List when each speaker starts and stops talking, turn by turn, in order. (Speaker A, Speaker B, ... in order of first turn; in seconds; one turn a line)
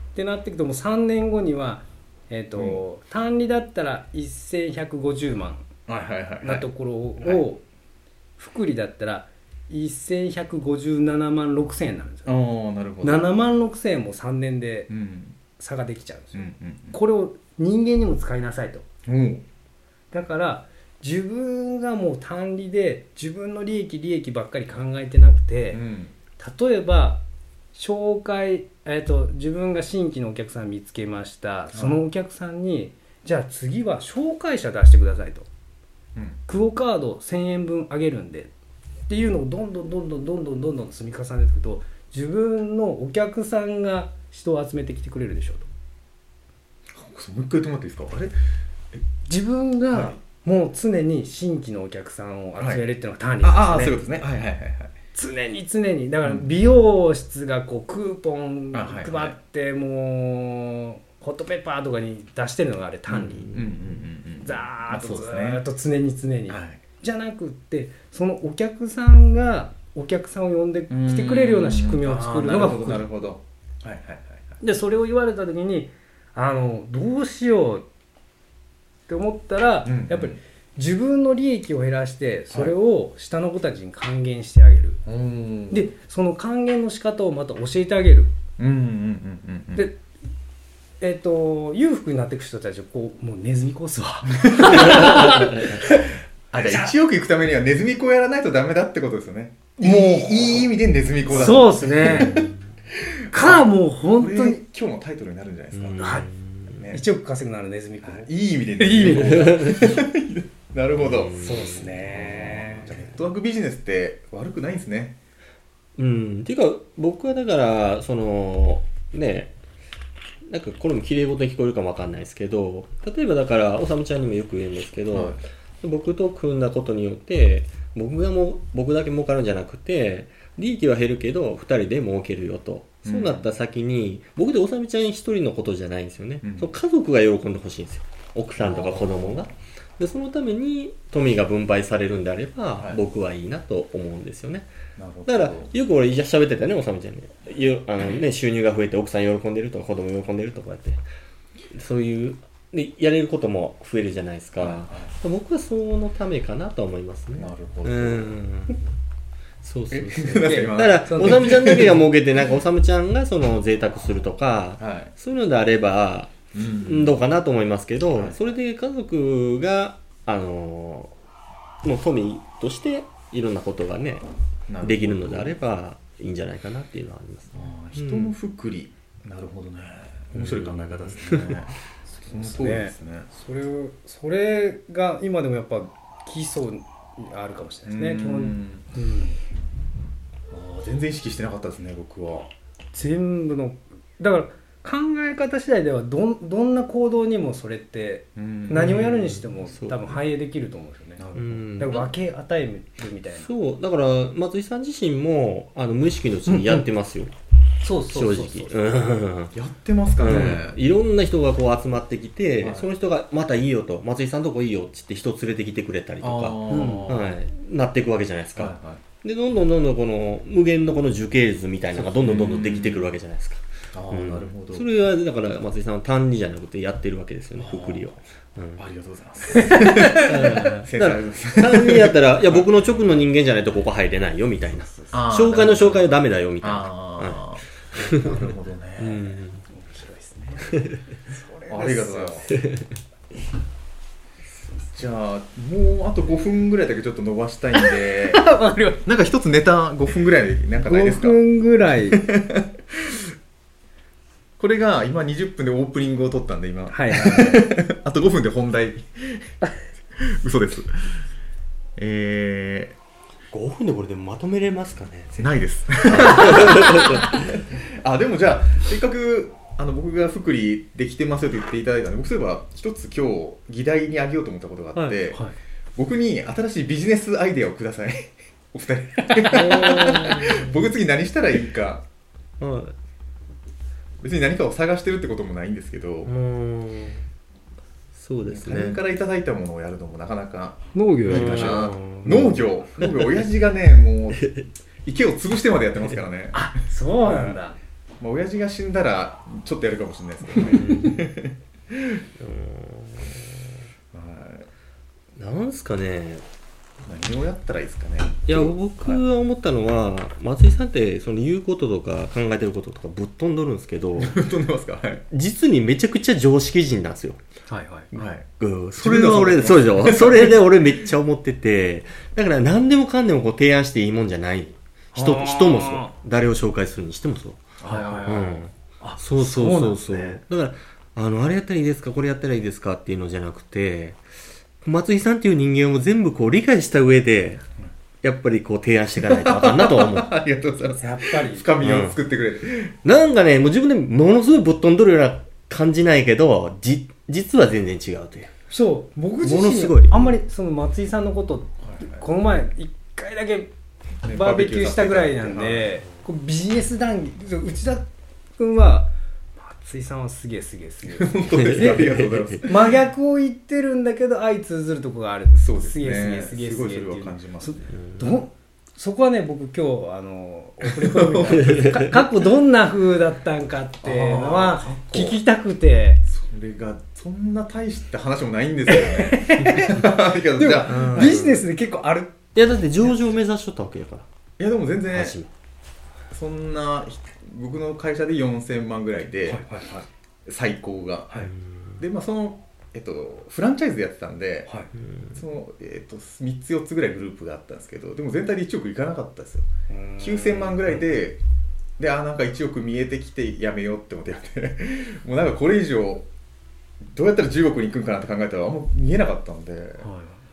Speaker A: 0.1-5.7
Speaker B: 2.5-2.8
Speaker B: 5.9-6.7
Speaker A: 6.4-7.6
Speaker B: 7.2-7.5
Speaker A: 8.4-12.3
Speaker B: 12.3-13.3
Speaker A: 13.0-14.9
Speaker B: 14.9-15.4
Speaker A: 15.6-18.9
Speaker B: 16.3-17.0
Speaker B: 19.1-19.4
Speaker A: 20.1-25.8
Speaker B: 25.7-26.1
Speaker A: 26.4-27.2
Speaker A: 27.7-35.5
Speaker B: 31.7-32.0
Speaker B: 36.1-36.4
Speaker A: 36.5-38.5
Speaker A: 39.1-45.7
Speaker B: 46.9-48.4
Speaker A: 49.3-54.0
Speaker B: 49.9-50.2
Speaker B: 52.6-52.8
Speaker B: 53.4-54.9
Speaker A: 55.1-63.5
Speaker B: 58.7-59.4
Speaker B: 63.1-65.6
Speaker A: 64.4-73.0
Speaker B: 66.5-66.8
Speaker B: 70.9-74.6
Speaker A: 74.6-77.8
Speaker A: 79.1-85.0
Speaker B: 79.9-80.4
Speaker B: 85.1-85.9
Speaker A: 85.7-88.3
Speaker B: 88.6-89.9
Speaker A: 91.0-96.9
Speaker B: 94.4-96.0
Speaker C: 94.9-95.7
Speaker B: 96.5-106.2
Speaker A: 99.8-100.7
Speaker A: 101.3-102.4
Speaker C: 102.1-102.6
Speaker A: 103.3-104.6
Speaker C: 105.7-106.8
Speaker A: 106.0-106.3
Speaker B: 106.7-107.0
Speaker A: 106.9-109.8
Speaker B: 108.0-111.4
Speaker C: 109.0-109.9
Speaker C: 111.0-112.7
Speaker A: 111.4-112.9
Speaker B: 112.8-115.2
Speaker C: 116.0-119.5
Speaker C: 120.5-144.7
Speaker B: 125.1-125.4
Speaker B: 133.1-133.5
Speaker B: 136.4-136.7
Speaker B: 138.6-139.5
Speaker B: 142.8-143.0
Speaker B: 145.0-145.7
Speaker C: 145.3-151.0
Speaker C: 151.7-158.8
Speaker B: 154.6-155.1
Speaker B: 157.4-158.4
Speaker C: 159.6-171.1
Speaker B: 159.9-162.1
Speaker A: 160.3-161.6
Speaker B: 164.8-165.1
Speaker B: 166.5-167.2
Speaker C: 171.8-174.3
Speaker B: 174.7-175.6
Speaker C: 174.8-178.3
Speaker B: 177.5-181.8
Speaker C: 180.3-181.6
Speaker A: 182.1-189.4
Speaker B: 182.3-183.3
Speaker B: 187.9-188.9
Speaker B: 190.5-192.5
Speaker A: 192.9-201.2
Speaker B: 198.4-199.1
Speaker C: 198.7-200.2
Speaker B: 201.2-202.1
Speaker C: 201.3-202.1
Speaker A: 201.8-203.5
Speaker C: 203.4-207.3
Speaker A: 206.5-206.8
Speaker A: 207.8-208.8
Speaker C: 208.1-209.5
Speaker B: 209.5-210.8
Speaker C: 210.2-228.8
Speaker A: 210.3-210.6
Speaker B: 212.6-212.9
Speaker B: 216.2-217.4
Speaker A: 216.7-217.1
Speaker B: 218.6-219.0
Speaker B: 222.0-223.1
Speaker B: 223.9-224.9
Speaker B: 227.6-228.1
Speaker B: 228.8-232.7
Speaker A: 229.5-230.3
Speaker C: 229.7-238.4
Speaker A: 234.9-235.2
Speaker B: 235.1-239.4
Speaker C: 239.0-239.7
Speaker A: 239.7-242.5
Speaker C: 240.7-241.0
Speaker B: 241.7-242.5
Speaker C: 242.5-242.9
Speaker B: 244.9-248.5
Speaker A: 247.8-249.0
Speaker B: 249.1-251.4
Speaker A: 250.8-252.2
Speaker B: 252.1-253.2
Speaker B: 254.6-259.5
Speaker A: 256.9-257.6
Speaker B: 260.1-261.2
Speaker B: 262.0-263.0
Speaker C: 263.5-267.6
Speaker B: 265.4-275.4
Speaker A: 275.0-275.6
Speaker B: 276.0-282.0
Speaker A: 279.4-280.5
Speaker C: 279.5-280.8
Speaker C: 282.6-282.9
Speaker B: 284.2-286.3
Speaker C: 286.3-287.2
Speaker C: 288.1-289.0
Speaker B: 288.5-294.5
Speaker A: 290.9-292.6
Speaker C: 291.3-293.4
Speaker C: 294.4-294.6
Speaker B: 295.1-296.7
Speaker A: 296.5-297.8
Speaker B: 297.2-297.6
Speaker B: 298.2-302.2
Speaker C: 300.6-301.3
Speaker C: 302.4-303.7
Speaker B: 304.1-304.7
Speaker C: 305.4-306.4
Speaker B: 307.0-309.2
Speaker C: 308.5-314.4
Speaker B: 314.2-315.2
Speaker C: 315.3-317.4
Speaker A: 317.7-318.1
Speaker B: 318.1-320.6
Speaker C: 318.2-334.2
Speaker A: 325.1-326.1
Speaker B: 327.8-328.7
Speaker A: 327.8-328.4
Speaker A: 329.0-330.4
Speaker C: 334.8-337.6
Speaker C: 338.2-340.3
Speaker B: 339.2-342.9
Speaker A: 341.0-341.7
Speaker C: 341.8-342.2
Speaker C: 343.0-348.5
Speaker A: 348.7-353.7
Speaker C: 349.4-350.4
Speaker B: 351.8-352.2
Speaker B: 354.2-356.0
Speaker A: 354.2-362.1
Speaker B: 361.1-362.9
Speaker C: 361.5-362.6
Speaker A: 362.6-376.2
Speaker B: 365.5-367.9
Speaker C: 367.9-368.2
Speaker B: 370.9-371.8
Speaker C: 371.6-372.2
Speaker B: 374.0-375.4
Speaker B: 376.3-381.4
Speaker A: 378.9-382.4
Speaker C: 380.9-381.6
Speaker C: 382.6-384.3
Speaker B: 384.6-385.4
Speaker C: 385.1-385.5
Speaker B: 386.3-389.6
Speaker A: 389.5-390.1
Speaker B: 390.5-391.4
Speaker C: 391.5-392.0
Speaker B: 392.0-394.7
Speaker C: 395.0-395.4
Speaker B: 395.4-401.4
Speaker A: 399.9-401.0
Speaker B: 402.0-406.3
Speaker B: 407.0-410.1
Speaker A: 410.0-410.4